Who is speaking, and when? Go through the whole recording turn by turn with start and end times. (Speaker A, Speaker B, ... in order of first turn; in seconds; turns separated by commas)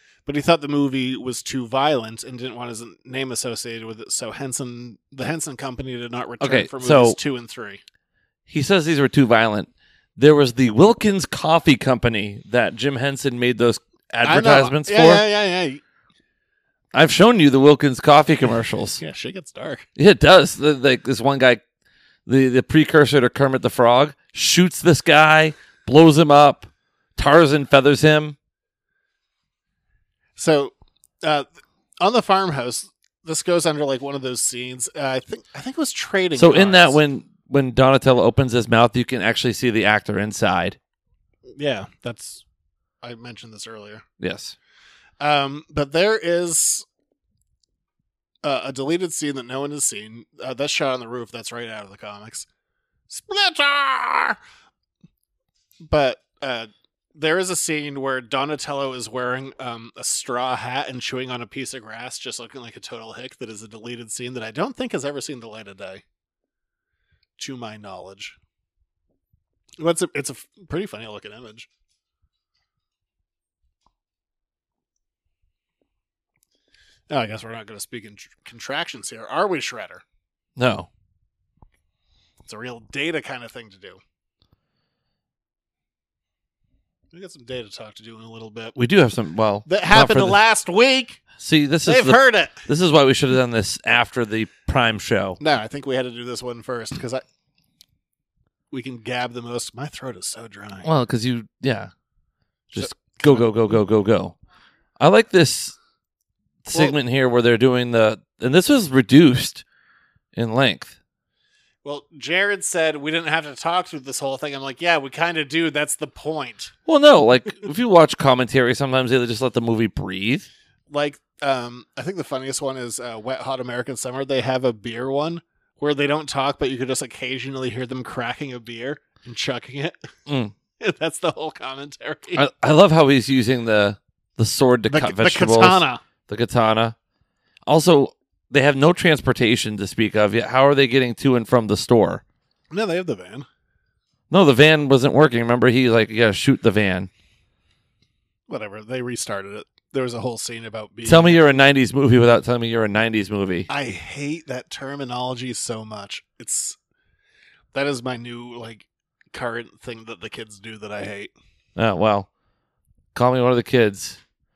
Speaker A: 0.3-7.8, Speaker B: 6.4-7.2, Speaker B: 8.5-15.2, Speaker A: 14.2-15.8, Speaker B: 16.9-19.0, Speaker A: 19.0-19.9, Speaker B: 20.0-21.6, Speaker B: 22.3-28.4, Speaker A: 30.4-31.5, Speaker A: 32.0-37.0, Speaker B: 36.4-40.8, Speaker A: 41.5-42.4, Speaker A: 43.0-44.0, Speaker B: 44.2-44.6, Speaker A: 45.2-46.9, Speaker A: 48.4-52.5, Speaker A: 53.1-54.4, Speaker A: 55.8-66.0, Speaker A: 67.4-68.4, Speaker A: 69.8-71.7, Speaker A: 77.1-80.0, Speaker B: 80.6-80.9, Speaker A: 82.5-84.0, Speaker A: 87.1-88.8, Speaker B: 88.8-90.4, Speaker A: 89.7-91.2, Speaker B: 91.4-95.4, Speaker A: 91.8-92.7, Speaker A: 95.4-97.2, Speaker A: 98.7-100.9, Speaker B: 100.8-101.9, Speaker B: 102.7-104.3, Speaker A: 102.8-103.5, Speaker B: 105.0-105.8, Speaker B: 106.7-109.6, Speaker B: 110.3-111.0, Speaker A: 111.8-116.7, Speaker B: 116.9-120.5, Speaker A: 120.9-130.1, Speaker B: 130.3-130.5, Speaker A: 130.8-132.4, Speaker B: 132.3-137.0, Speaker A: 134.9-136.0, Speaker B: 137.7-142.2, Speaker A: 142.7-143.5, Speaker B: 144.3-147.1, Speaker A: 148.5-151.6, Speaker B: 151.1-153.7, Speaker A: 153.7-156.8, Speaker A: 157.7-161.3, Speaker B: 161.8-162.3, Speaker B: 163.2-164.2